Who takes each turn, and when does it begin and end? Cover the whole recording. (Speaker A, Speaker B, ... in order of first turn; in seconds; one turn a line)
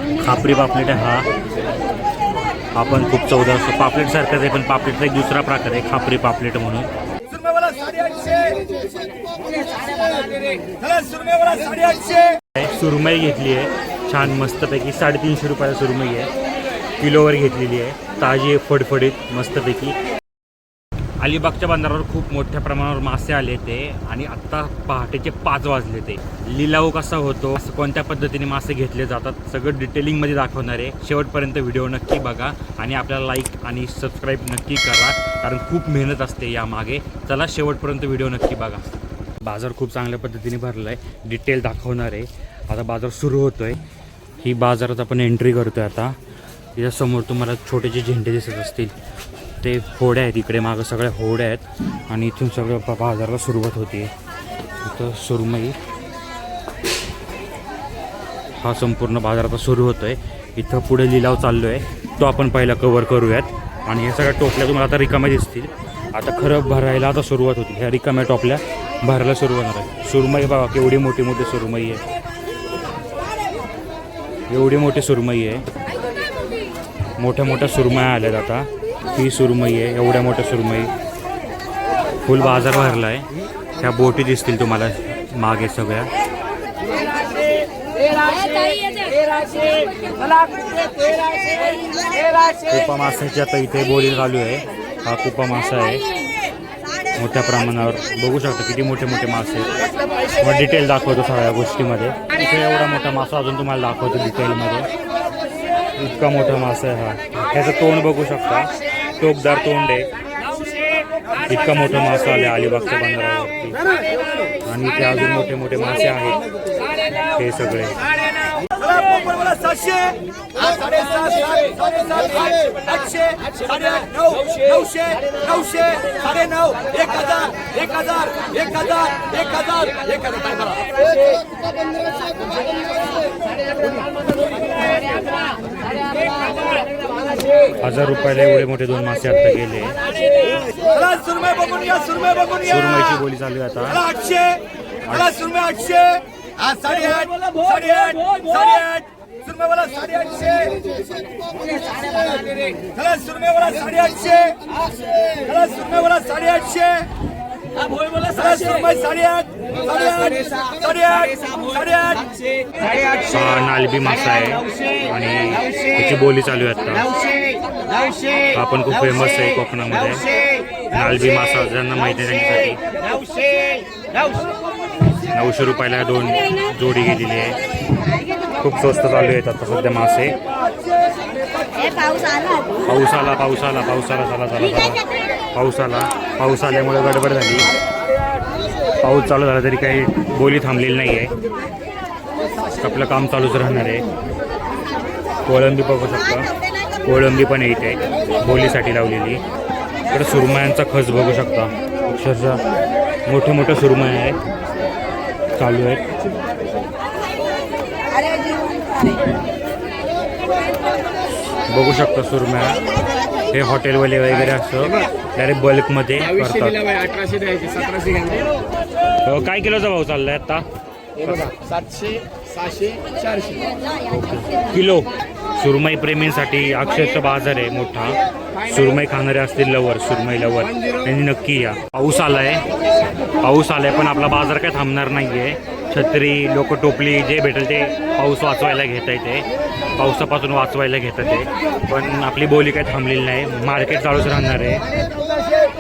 Speaker A: 0.2-1.3
Speaker A: 2.8-6.9
Speaker B: 7.6-8.6
Speaker B: 9.4-12.0
Speaker A: 12.5-16.3
Speaker A: 17.0-20.0
Speaker A: 21.2-38.8
Speaker A: 39.4-43.8
Speaker A: 44.4-46.2
Speaker A: 46.8-48.9
Speaker A: 49.6-54.1
Speaker A: 54.8-55.8
Speaker A: 58.6-72.0
Speaker A: 74.5-75.6
Speaker A: 77.2-80.9
Speaker A: 82.2-83.3
Speaker A: 83.8-86.1
Speaker B: 87.1-91.2
Speaker A: 92.7-96.0
Speaker A: 97.2-99.7
Speaker A: 100.4-104.9
Speaker A: 106.0-110.1
Speaker A: 111.5-113.8
Speaker A: 114.7-116.4
Speaker A: 117.3-118.0
Speaker B: 118.7-119.9
Speaker B: 120.7-122.7
Speaker B: 123.5-125.5
Speaker B: 126.9-127.2
Speaker A: 137.8-140.0
Speaker B: 141.3-142.3
Speaker A: 142.5-144.1
Speaker A: 145.1-145.9
Speaker B: 146.6-149.0
Speaker B: 149.5-150.8
Speaker B: 151.5-154.1
Speaker B: 155.5-156.7
Speaker B: 157.9-159.3
Speaker B: 159.9-163.1
Speaker A: 163.3-167.1
Speaker A: 168.5-170.3
Speaker A: 170.9-172.8
Speaker A: 175.3-177.6
Speaker A: 178.6-180.4
Speaker C: 181.7-182.8
Speaker A: 182.8-185.0
Speaker A: 185.6-187.7
Speaker A: 189.0-191.3
Speaker A: 192.8-194.1
Speaker A: 195.5-196.5
Speaker A: 197.0-199.4
Speaker A: 200.1-202.6
Speaker A: 203.3-204.4
Speaker A: 205.6-206.1
Speaker C: 208.1-209.2
Speaker A: 211.7-212.8
Speaker A: 213.5-216.9
Speaker B: 216.9-218.6
Speaker A: 219.2-220.7
Speaker A: 221.2-221.5
Speaker B: 221.5-223.6
Speaker A: 224.1-232.7
Speaker A: 233.4-239.5
Speaker A: 240.0-244.8